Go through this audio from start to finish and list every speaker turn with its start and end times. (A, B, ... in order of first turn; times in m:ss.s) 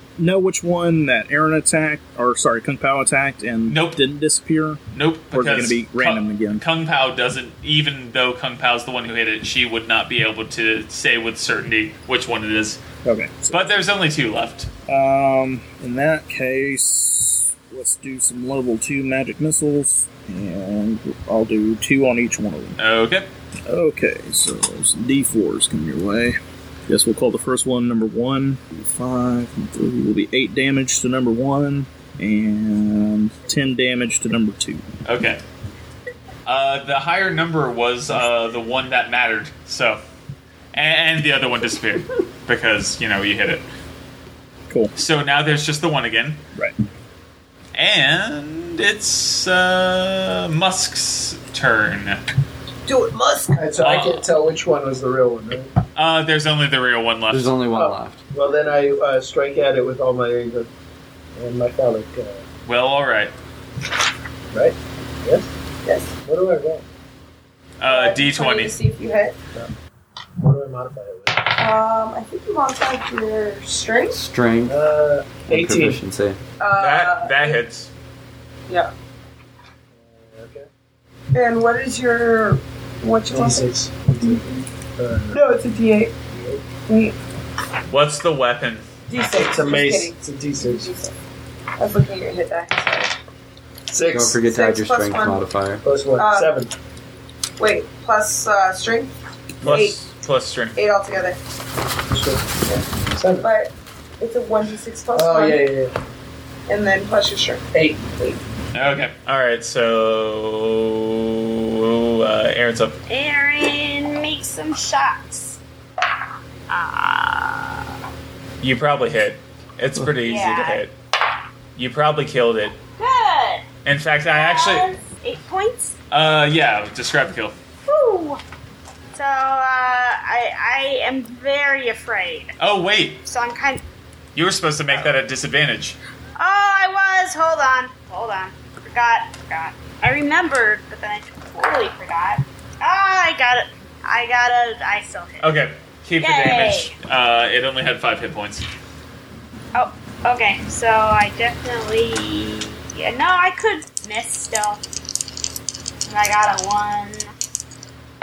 0:00.2-0:04.8 A
0:03.7-0:04.0 B
0:04.9-0:12.8 B
0:05.3-0:06.6 A
0:13.0-0:13.8 A
0:13.5-0:14.7 B
0:14.9-0:22.8 A
0:22.8-0:23.3 B
0:23.6-0:26.4 A
0:26.9-0:34.8 A
0:35.0-0:35.4 B
0:36.4-0:40.0 B
0:40.7-0:43.6 B
0:45.0-0:46.4 B
0:47.7-0:52.2 B
0:52.9-0:53.6 C
0:53.6-0:55.7 D
0:53.8-0:54.3 B
0:56.0-0:57.6 B
0:57.3-0:58.2 E
0:57.7-1:00.7 D
1:01.4-1:02.4 D
1:02.6-1:03.3 B
1:04.5-1:05.5 D
1:05.8-1:06.1 C
1:06.2-1:06.8 D
1:07.8-1:08.7 B
1:07.8-1:09.4 C
1:10.4-1:11.5 D
1:11.6-1:14.2 C
1:14.1-1:14.9 E
1:14.7-1:16.0 D
1:15.5-1:16.4 E
1:16.6-1:17.6 C
1:16.8-1:17.9 B
1:20.0-1:20.7 D
1:21.3-1:23.7 C
1:23.3-1:24.4 D
1:24.2-1:24.6 C
1:25.0-1:25.4 D
1:25.3-1:26.2 C
1:26.3-1:26.6 D
1:26.8-1:27.2 C
1:27.9-1:28.8 B
1:29.1-1:31.2 C
1:29.2-1:30.9 D
1:31.8-1:33.1 C
1:33.9-1:34.4 D
1:34.1-1:35.8 E
1:34.4-1:35.4 C
1:35.8-1:36.7 D
1:36.2-1:36.6 C
1:37.6-1:40.0 C
1:39.6-1:40.8 B
1:40.8-1:41.4 C
1:42.1-1:42.5 D
1:43.1-1:43.5 D
1:43.4-1:45.7 C
1:45.1-1:45.9 D
1:46.7-1:47.6 C
1:47.7-1:48.4 D
1:48.7-1:53.0 B
1:53.1-1:55.6 F
1:56.7-1:57.9 F
1:58.6-2:00.9 B
2:00.2-2:00.8 F
2:01.8-2:02.8 B
2:03.0-2:03.6 F
2:03.8-2:04.9 B
2:04.3-2:05.9 F
2:06.1-2:07.6 B
2:07.8-2:08.4 F
2:09.1-2:12.5 F
2:12.6-2:13.2 B
2:13.2-2:13.8 F
2:14.3-2:16.0 B
2:16.4-2:25.6 F
2:25.4-2:28.6 B
2:26.2-2:27.0 F
2:29.7-2:34.8 F
2:36.0-2:37.3 F